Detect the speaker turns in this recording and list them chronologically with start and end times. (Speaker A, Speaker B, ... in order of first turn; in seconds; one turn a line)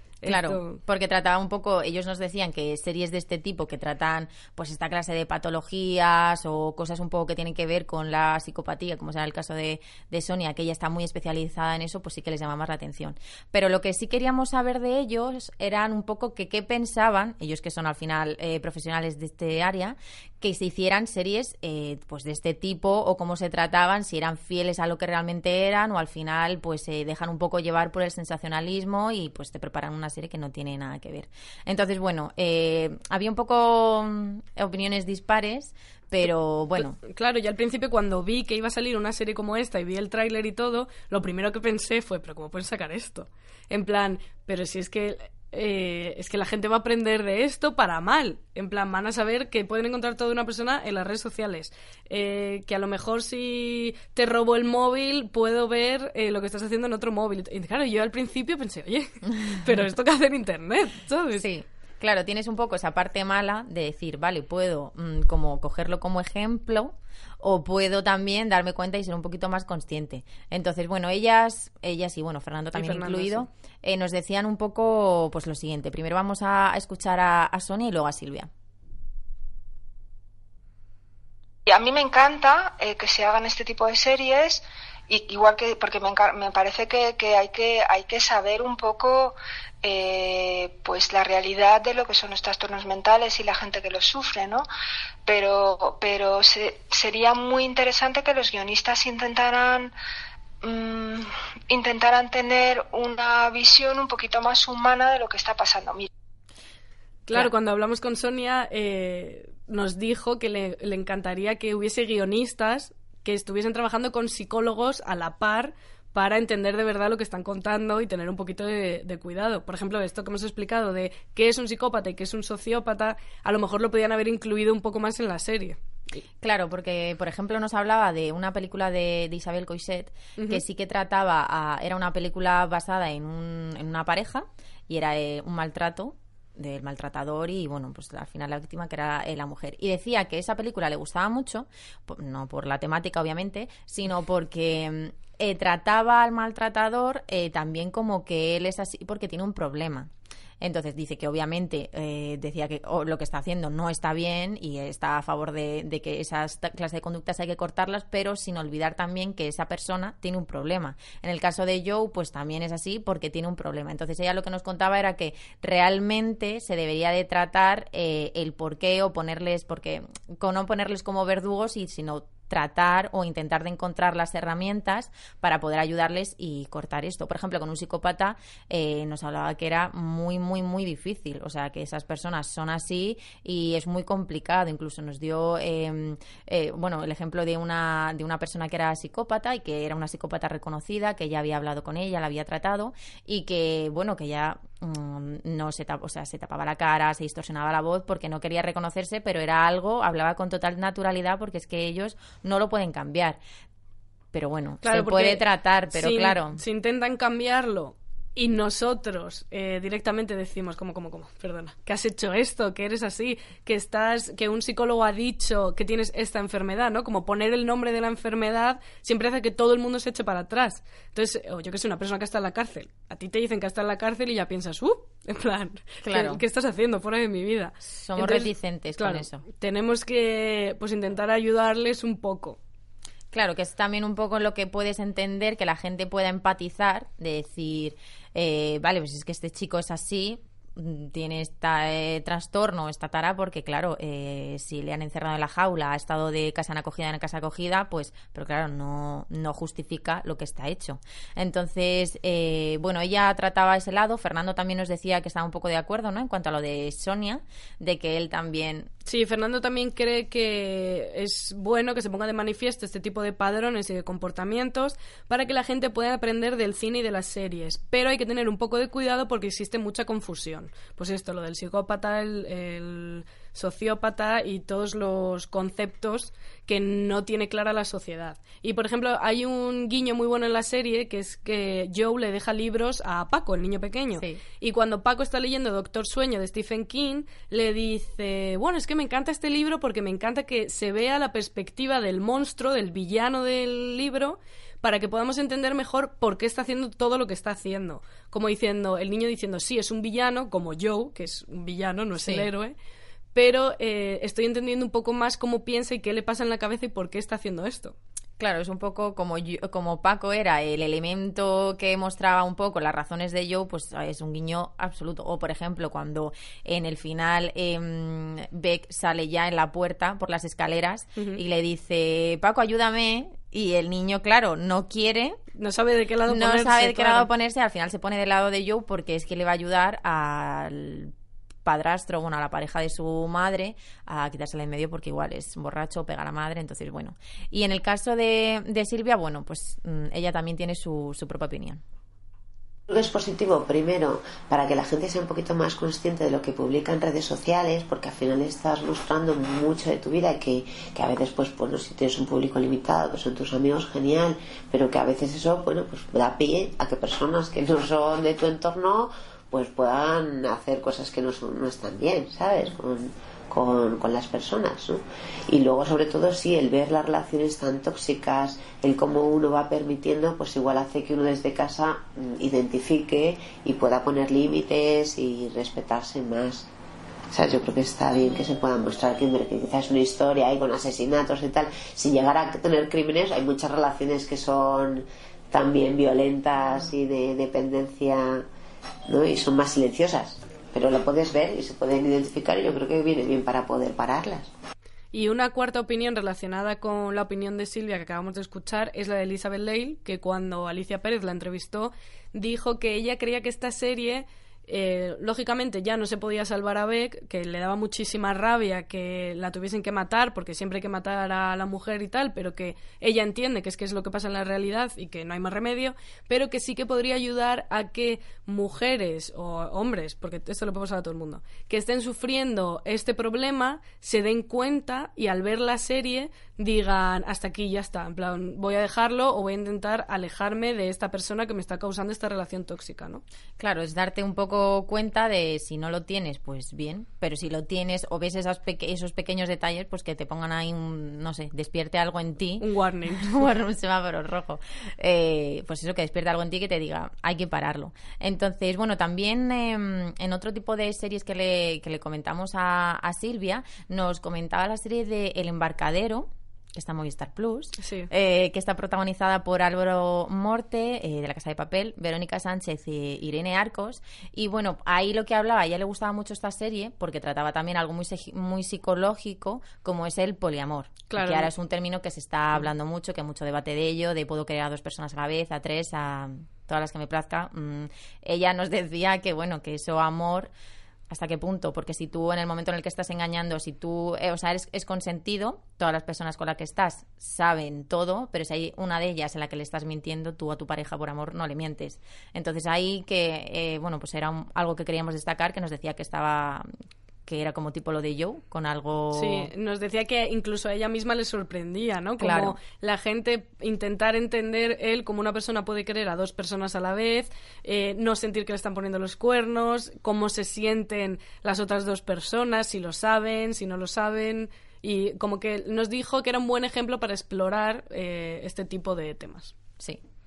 Speaker A: 0.2-0.8
Speaker B: 0.2-37.0
Speaker A: 36.8-61.5
Speaker B: 61.4-78.5
Speaker A: 72.7-73.5
Speaker C: 81.7-94.7
Speaker C: 95.3-99.9
Speaker C: 100.6-106.1
Speaker A: 107.3-125.8
Speaker B: 126.4-203.4
Speaker A: 130.4-130.6
Speaker B: 204.3-206.6
Speaker A: 204.8-232.6
Speaker B: 226.0-226.4
Speaker B: 227.8-229.4
Speaker B: 233.3-258.9
Speaker A: 259.1-302.8
Speaker B: 302.2-302.5
Speaker A: 303.3-307.9
Speaker B: 308.4-325.4
Speaker A: 321.2-321.4
Speaker A: 325.6-327.3
Speaker B: 326.3-331.1
Speaker B: 331.6-341.8
Speaker D: 342.9-376.7
Speaker D: 377.3-388.4
Speaker D: 389.1-394.5
Speaker A: 395.1-433.2
Speaker B: 433.6-480.5
Speaker A: 442.6-443.4
Speaker A: 457.8-458.1
Speaker A: 471.1-471.5
Speaker B: 481.1-496.7
Speaker B: 497.3-499.5
Speaker A: 499.1-519.5
Speaker B: 502.2-502.6